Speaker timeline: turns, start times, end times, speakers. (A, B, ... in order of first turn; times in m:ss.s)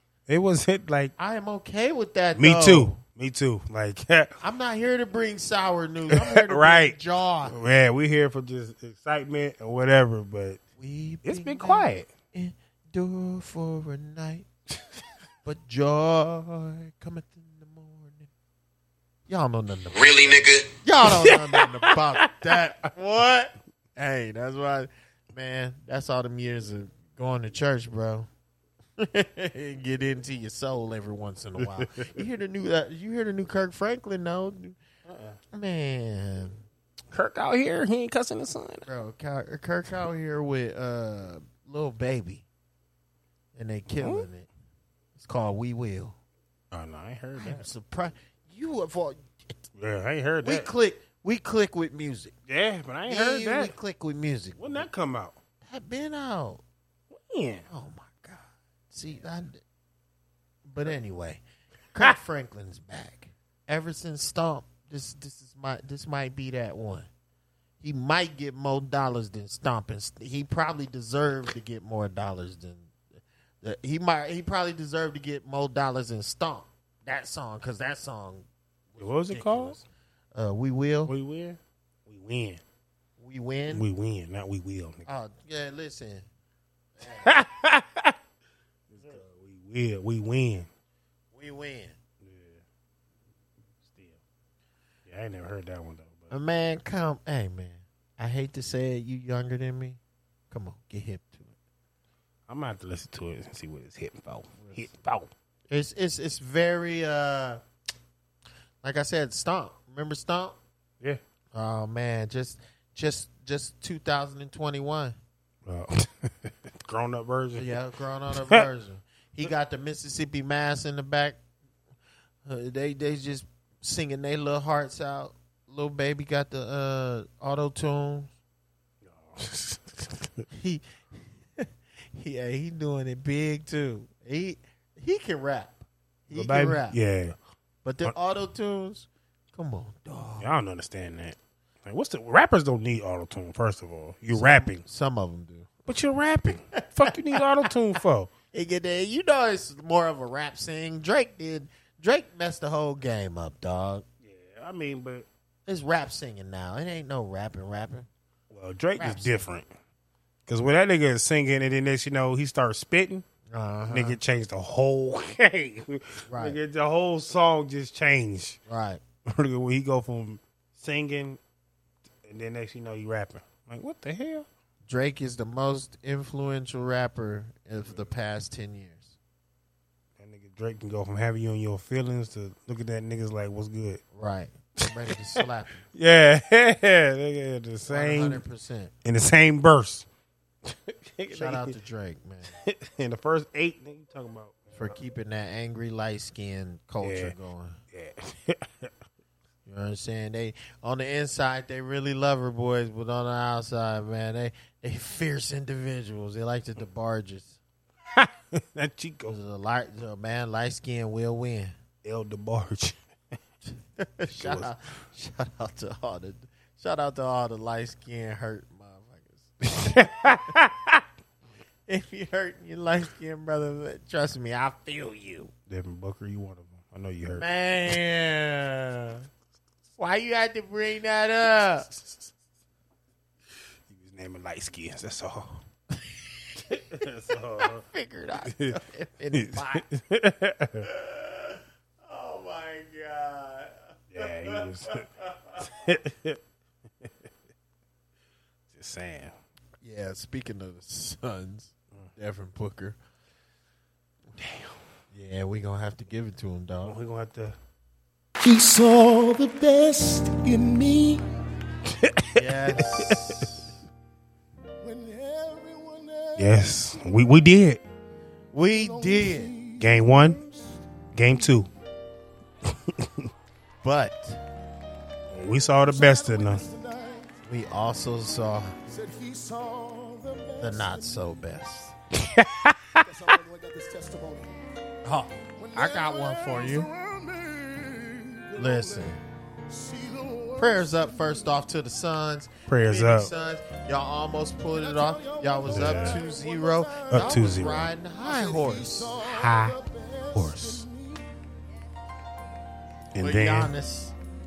0:00.3-0:01.1 A
0:01.2-0:03.0 B
0:02.3-0:04.3 A
0:04.4-0:07.6 B
0:06.1-0:07.0 A
0:07.5-0:10.6 A
0:10.8-0:14.5 B
0:11.2-0:12.1 A
0:15.4-0:18.3 B
0:19.3-0:28.3 B
0:21.0-0:22.7 A
0:29.0-0:34.8 B
0:31.6-0:31.8 A
0:35.1-0:35.4 A
0:35.5-0:36.6 B
0:37.1-0:38.9 A
0:38.8-0:42.4 B
0:43.5-0:44.5 B
0:44.0-0:44.2 A
0:45.2-0:46.2 B
0:46.7-0:47.7 A
0:47.4-0:49.6 B
0:49.8-0:50.7 A
0:50.4-0:52.3 B
0:52.5-0:53.7 A
0:53.1-0:54.9 B
0:54.6-0:55.4 A
0:55.6-0:56.6 B
0:57.1-0:57.6 A
0:57.7-0:59.6 B
1:00.6-1:01.4 B
1:01.9-1:07.1 B
1:07.8-1:12.9 B
1:13.6-1:21.1 B
1:19.0-1:19.8 A
1:21.0-1:22.6 A
1:23.2-1:23.8 B
1:23.7-1:25.0 A
1:25.0-1:26.2 B
1:27.0-1:27.3 B
1:27.2-1:28.2 A
1:28.9-1:30.7 A
1:31.3-1:31.9 B
1:32.2-1:32.6 A
1:33.8-1:34.2 A
1:35.1-1:36.3 A
1:36.3-1:40.0 B
1:40.5-1:41.5 B
1:42.5-1:45.3 A
1:45.7-1:47.6 B
1:48.8-1:50.6 B
1:51.5-1:55.2 B
1:55.6-1:57.7 A
1:57.6-2:01.4 B
1:58.3-1:58.6 A
2:02.4-2:08.3 B
2:09.0-2:10.4 A
2:10.5-2:10.8 B
2:11.6-2:17.0 B
2:16.3-2:17.4 A
2:17.8-2:20.5 B
2:20.4-2:24.8 A
2:24.3-2:25.8 B
2:25.9-2:28.3 A
2:26.7-2:27.7 B
2:28.5-2:34.0 B
2:34.2-2:35.3 A
2:35.7-2:38.1 B
2:38.5-2:39.7 A
2:39.0-2:39.4 B
2:40.5-2:43.2 A
2:43.5-2:44.2 B
2:43.9-2:48.6 A
2:46.3-2:46.6 B
2:48.7-2:49.0 B
2:49.3-2:51.4 A
2:52.2-2:54.4 A
2:54.8-2:59.1 B
3:00.2-3:04.0 A
3:04.1-3:05.8 B
3:05.9-3:08.4 A
3:07.9-3:08.9 B
3:09.0-3:10.0 A
3:10.6-3:11.7 A
3:11.3-3:12.6 B
3:12.6-3:15.0 A
3:14.8-3:17.8 B
3:17.0-3:17.3 A
3:17.9-3:18.9 A
3:19.6-3:27.6 B
3:28.1-3:29.4 A
3:29.3-3:31.7 B
3:32.0-3:33.0 A
3:34.0-3:40.5 B
3:34.3-3:34.7 A
3:39.6-3:41.0 A
3:41.9-3:45.5 B
3:45.7-3:47.4 A
3:47.4-3:49.2 B
3:50.0-3:51.9 B
3:53.9-3:55.6 A
3:56.7-3:57.8 A
3:57.3-3:59.8 B
3:58.5-3:58.8 A
3:59.3-4:00.9 A
4:00.8-4:05.6 B
4:04.1-4:05.0 A
4:05.6-4:06.4 A
4:08.7-4:09.3 A
4:09.8-4:13.0 B
4:14.4-4:14.7 A
4:15.1-4:17.0 B
4:16.8-4:17.6 A
4:18.4-4:21.2 C
4:21.9-4:23.1 A
4:22.3-4:23.7 B
4:24.8-4:26.6 C
4:26.4-4:27.8 A
4:28.5-4:29.5 B
4:28.8-4:30.6 C
4:29.8-4:30.4 A
4:31.1-4:31.7 A
4:33.0-4:33.2 A
4:33.8-4:34.4 B
4:35.3-4:36.6 A
4:35.9-4:37.3 C
4:37.5-4:38.7 B
4:38.9-4:41.2 C
4:40.6-4:41.9 B
4:42.2-4:43.3 A
4:43.0-4:44.5 C
4:45.0-4:46.9 B
4:45.6-4:49.1 C
4:48.5-4:49.2 B
4:49.7-4:51.2 C
4:50.6-4:59.2 B
4:52.7-4:53.3 A
4:54.7-4:57.6 C
4:55.7-4:56.2 A
4:57.1-4:57.9 A
4:58.2-5:01.2 C
4:59.2-4:59.8 A
5:00.3-5:00.8 A
5:03.1-5:03.7 A
5:03.2-5:04.1 B